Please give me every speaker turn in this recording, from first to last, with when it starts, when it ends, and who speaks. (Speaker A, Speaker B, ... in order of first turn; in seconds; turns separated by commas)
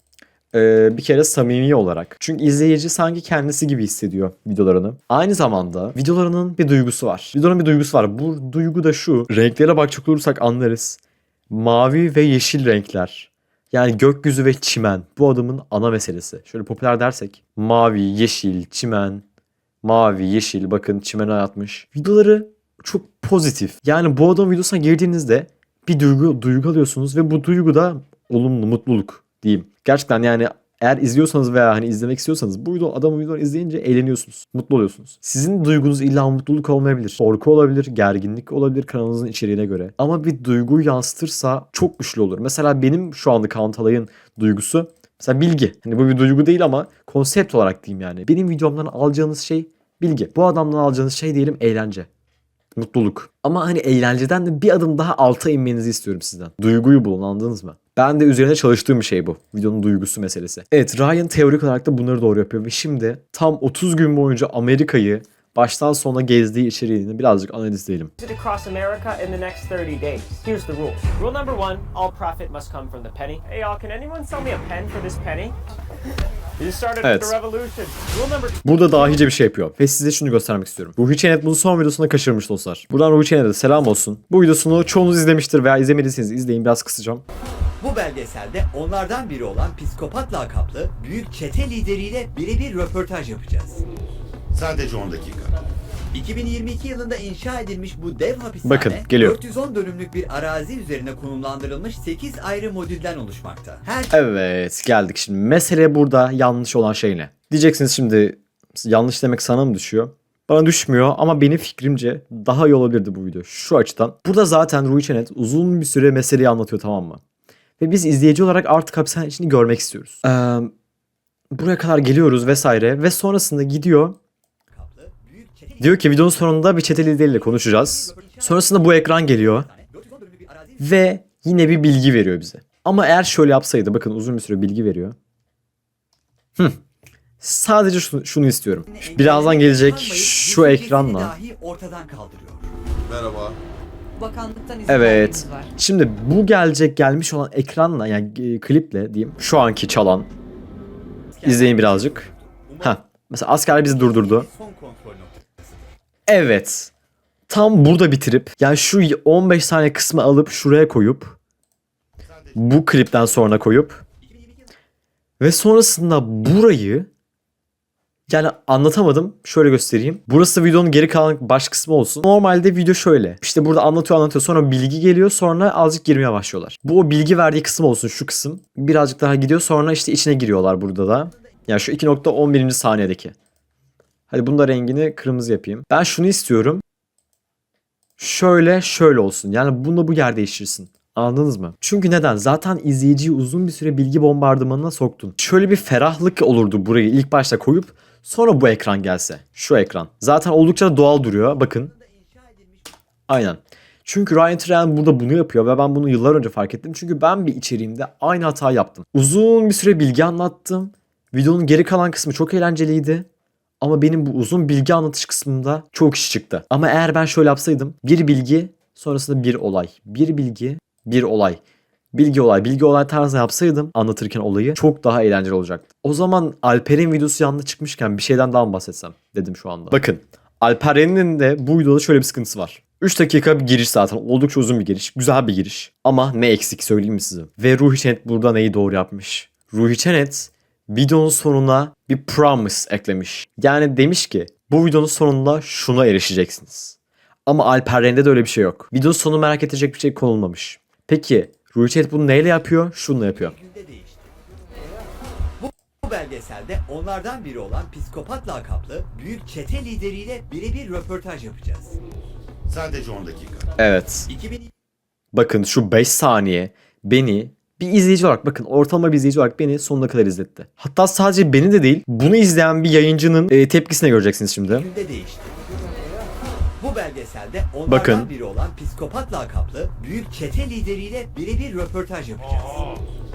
Speaker A: 0.5-19.2, Speaker A: 19.8-52.1, Speaker A: 52.8-68.1, Speaker B: 68.2-75.6, Speaker B: 76.1-79.2, Speaker A: 77.0-77.3, Speaker A: 78.6-87.2, Speaker C: 87.8-93.8, Speaker D: 94.5-95.5, Speaker C: 96.1-104.1, Speaker A: 98.6-99.4, Speaker A: 104.1-117.2, Speaker A: 117.8-120.7, Speaker A: 121.5-124.2, Speaker C: 124.7-126.2, Speaker A: 125.8-129.7, Speaker C: 127.0-130.8, Speaker A: 130.8-135.1, Speaker A: 137.4-141.3, Speaker C: 138.9-142.7, Speaker D: 143.1-143.5, Speaker C: 144.2-145.7, Speaker A: 144.9-150.3, Speaker C: 151.3-153.0, Speaker A: 151.4-152.3, Speaker A: 152.8-154.5, Speaker C: 153.7-155.8, Speaker A: 156.3-156.9, Speaker A: 157.5-161.4, Speaker A: 162.5-164.0, Speaker C: 164.2-164.6, Speaker A: 165.4-167.1, Speaker A: 168.3-183.3, Speaker A: 184.3-186.8, Speaker A: 188.2-201.9, Speaker C: 201.9-202.8, Speaker A: 203.3-213.2, Speaker A: 213.8-221.6, Speaker A: 222.1-253.5, Speaker C: 253.3-254.8, Speaker C: 255.6-262.0, Speaker D: 262.7-263.6, Speaker A: 263.8-264.3, Speaker C: 264.3-264.7, Speaker A: 265.3-274.9, Speaker C: 274.7-276.3, Speaker C: 276.8-283.0, Speaker A: 277.9-278.3